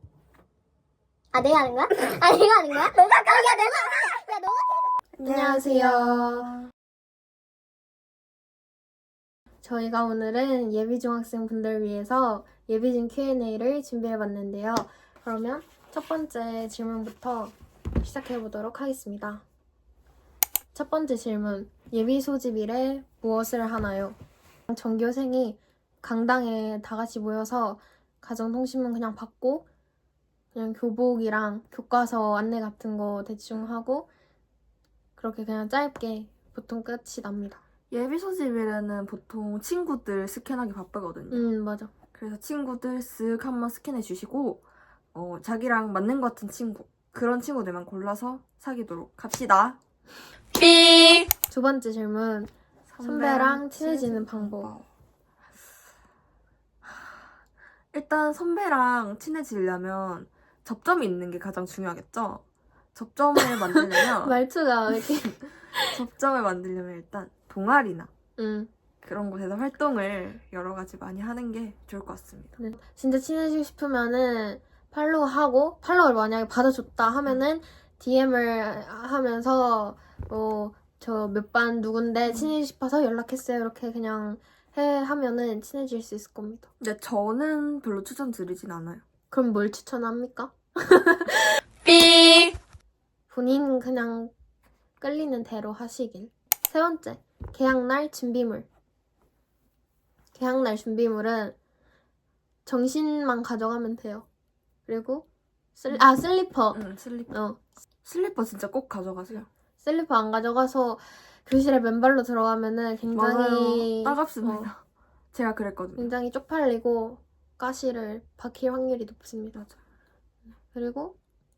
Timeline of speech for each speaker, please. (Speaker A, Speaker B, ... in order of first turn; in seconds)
Speaker A: 1.3-4.9
Speaker B: 5.2-5.9, 37.9-41.4, 42.1-44.6, 45.1-49.8, 52.9-54.9, 57.9-62.4, 62.9-64.4, 65.8-68.1, 69.0-72.5, 86.8-89.0, 106.7-107.3, 108.0-109.5, 113.1-114.8, 115.3-116.1
Speaker C: 5.2-6.6, 9.6-19.4, 20.7-24.2, 24.7-29.6, 30.5-34.1, 35.2-37.6, 41.3-41.9, 51.5-54.7, 63.4-66.0, 68.4-68.7, 72.6-86.7, 89.3-91.6, 93.3-94.3, 95.0-98.7, 100.3-101.5, 102.7-104.2, 104.9-105.2, 105.8-107.6, 109.8-114.7, 116.0-119.6, 120.7-121.2